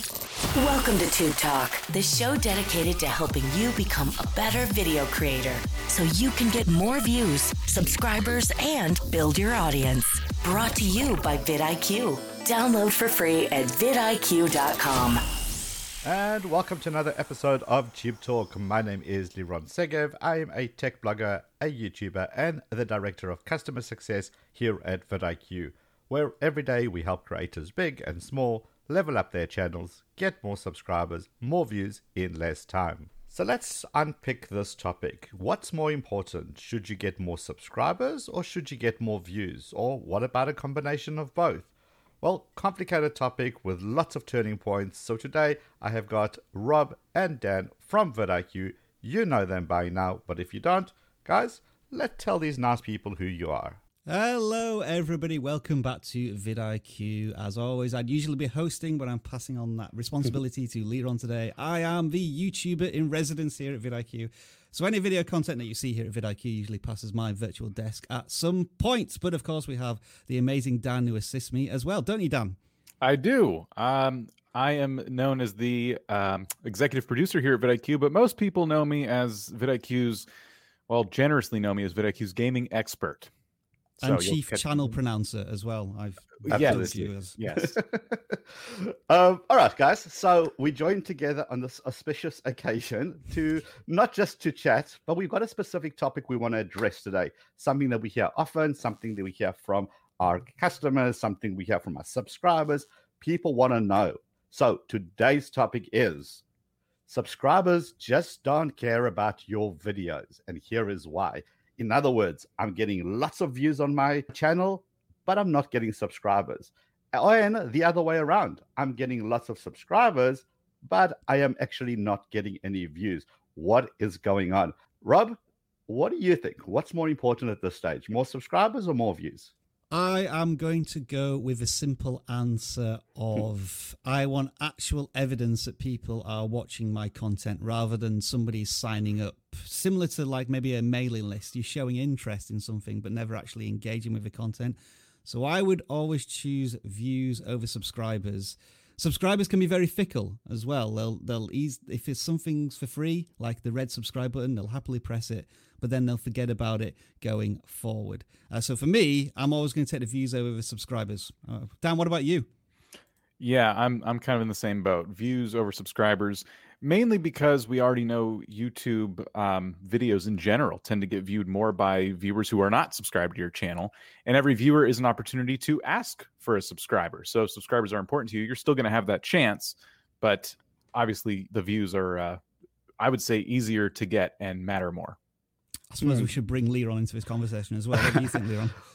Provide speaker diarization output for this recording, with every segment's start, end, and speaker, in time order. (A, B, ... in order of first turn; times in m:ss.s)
0:00.5-0:15.2 A
0:16.0-0:41.7 B
0:42.2-0:53.8 B
0:54.1-1:12.6 C
1:13.0-1:20.3 D
1:20.9-1:23.3 D
1:24.0-1:25.0 D
1:24.0-1:27.4 C
1:26.4-1:27.8 D
1:26.5-1:46.4 B
1:47.1-2:09.5 B
2:09.9-2:42.5 C
2:43.4-3:02.4 D
3:03.0-3:05.2 D
3:05.9-3:08.8 C
3:06.0-3:06.3 B